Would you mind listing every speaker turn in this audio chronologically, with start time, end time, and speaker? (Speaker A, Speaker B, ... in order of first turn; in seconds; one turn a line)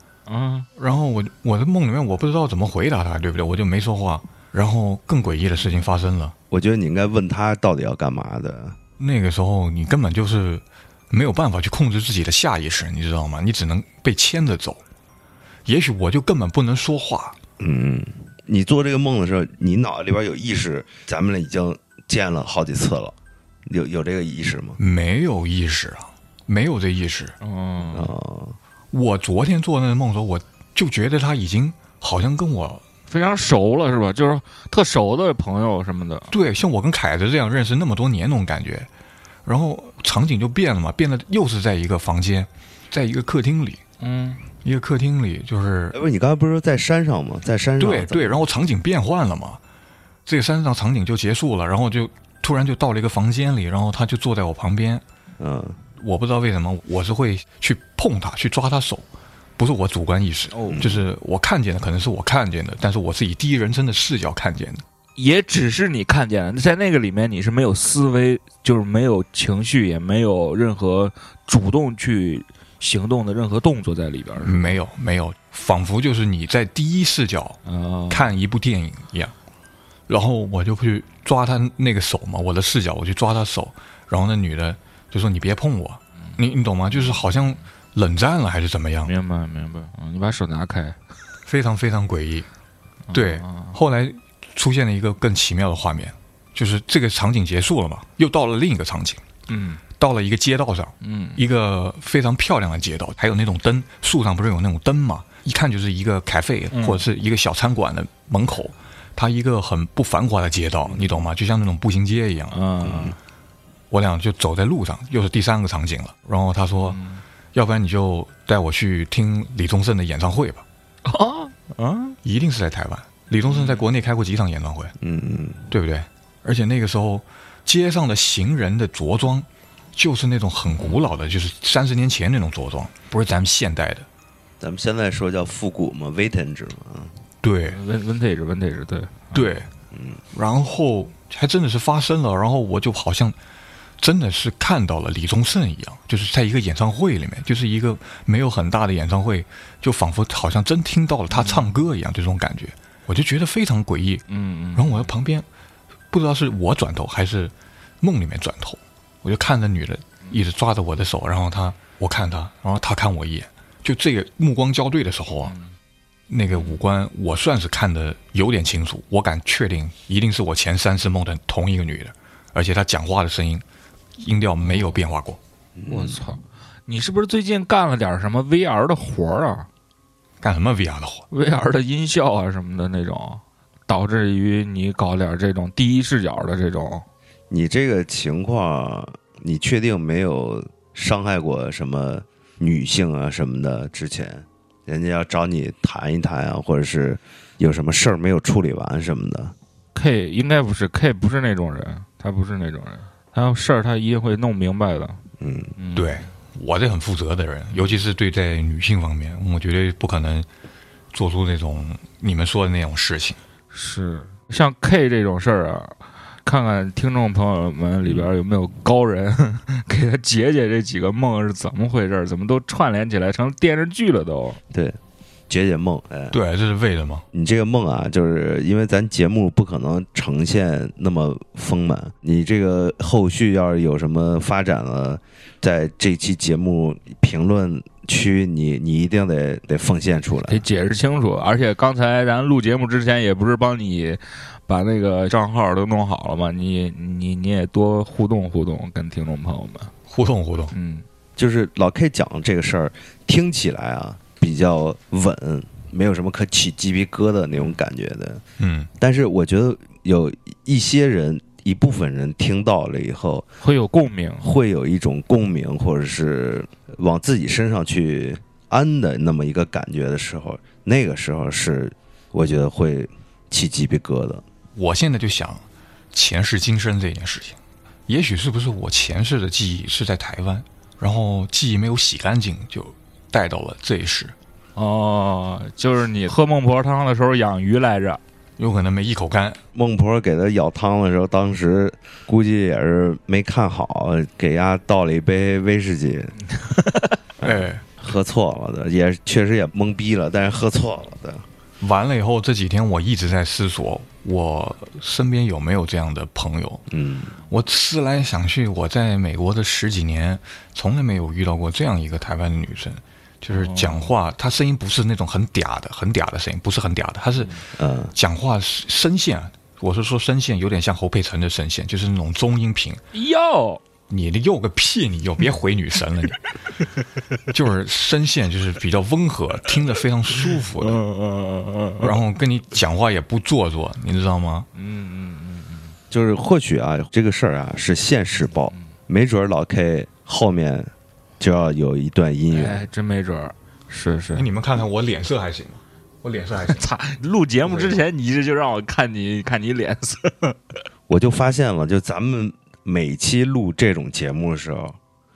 Speaker A: 0.3-0.7
Speaker B: 0.8-6.3
Speaker C: 6.5-8.8
Speaker B: 9.0-14.8
Speaker B: 15.7-17.4
Speaker C: 17.6-23.1
Speaker C: 23.6-24.8
Speaker B: 24.8-27.3
Speaker A: 27.4-28.1
Speaker C: 27.9-28.6
Speaker B: 28.9-32.8
Speaker A: 33.1-36.3
Speaker B: 36.3-38.9
Speaker B: 39.4-43.8
Speaker A: 44.0-44.4
Speaker B: 44.6-46.0
Speaker C: 45.9-48.5
Speaker B: 47.8-49.6
Speaker B: 50.2-55.0
Speaker C: 55.4-55.8
Speaker B: 56.0-59.0
Speaker B: 59.6-64.8
Speaker A: 60.5-60.9
Speaker C: 60.7-61.0
Speaker A: 65.2-74.8
Speaker B: 74.4-77.6
Speaker A: 77.7-78.3
Speaker B: 78.1-79.3
Speaker B: 80.1-89.1
Speaker A: 86.9-87.3
Speaker A: 89.0-91.0
Speaker B: 91.5-92.5
Speaker A: 93.1-93.8
Speaker B: 93.1-99.2
Speaker A: 99.5-99.8
Speaker B: 100.0-112.6
Speaker A: 101.0-101.4
Speaker A: 106.7-107.0
Speaker A: 110.9-111.2
Speaker A: 112.5-113.2
Speaker C: 112.8-113.2
Speaker B: 113.9-117.0
Speaker A: 116.8-117.2
Speaker B: 117.5-120.6
Speaker A: 121.0-122.2
Speaker B: 122.2-124.9
Speaker A: 123.4-123.8
Speaker C: 125.0-125.7
Speaker B: 125.7-134.1
Speaker C: 134.6-137.2
Speaker B: 137.4-137.8
Speaker A: 137.7-139.6
Speaker B: 139.3-139.7
Speaker C: 139.9-140.2
Speaker B: 140.3-143.3
Speaker B: 144.0-155.4
Speaker A: 151.3-151.7
Speaker A: 154.3-155.1
Speaker B: 156.1-165.5
Speaker A: 165.4-165.7
Speaker B: 166.3-173.6
Speaker A: 166.5-166.8
Speaker B: 174.2-175.4
Speaker C: 175.8-176.2
Speaker A: 175.9-179.7
Speaker B: 180.4-181.2
Speaker A: 181.3-187.0
Speaker C: 187.5-199.5
Speaker A: 199.9-205.2
Speaker C: 205.4-205.7
Speaker A: 205.8-206.2
Speaker B: 205.9-210.5
Speaker B: 211.1-213.4
Speaker A: 213.7-224.6
Speaker C: 224.7-225.0
Speaker C: 225.5-226.4
Speaker B: 226.3-227.2
Speaker C: 227.3-240.6
Speaker A: 240.5-249.9
Speaker B: 250.1-250.7
Speaker A: 250.7-251.0
Speaker C: 251.4-258.4
Speaker B: 258.6-258.9
Speaker C: 259.0-263.5
Speaker A: 263.6-264.5
Speaker C: 264.4-274.4
Speaker B: 274.8-275.6
Speaker B: 276.1-284.3
Speaker A: 284.8-288.2
Speaker B: 288.6-289.6
Speaker C: 289.7-296.4
Speaker A: 296.5-297.2
Speaker B: 297.4-297.8
Speaker C: 297.4-301.4
Speaker B: 301.8-306.8
Speaker C: 306.9-307.3
Speaker B: 307.5-317.6
Speaker A: 313.5-314.1
Speaker C: 317.8-318.1
Speaker B: 318.1-323.0
Speaker A: 323.1-323.8
Speaker B: 324.1-326.6
Speaker B: 327.5-331.0
Speaker A: 330.8-332.1
Speaker B: 332.0-334.7
Speaker A: 334.7-335.9
Speaker C: 336.1-342.8
Speaker A: 342.5-344.5
Speaker B: 344.3-346.8
Speaker A: 346.6-350.6
Speaker C: 351.1-355.0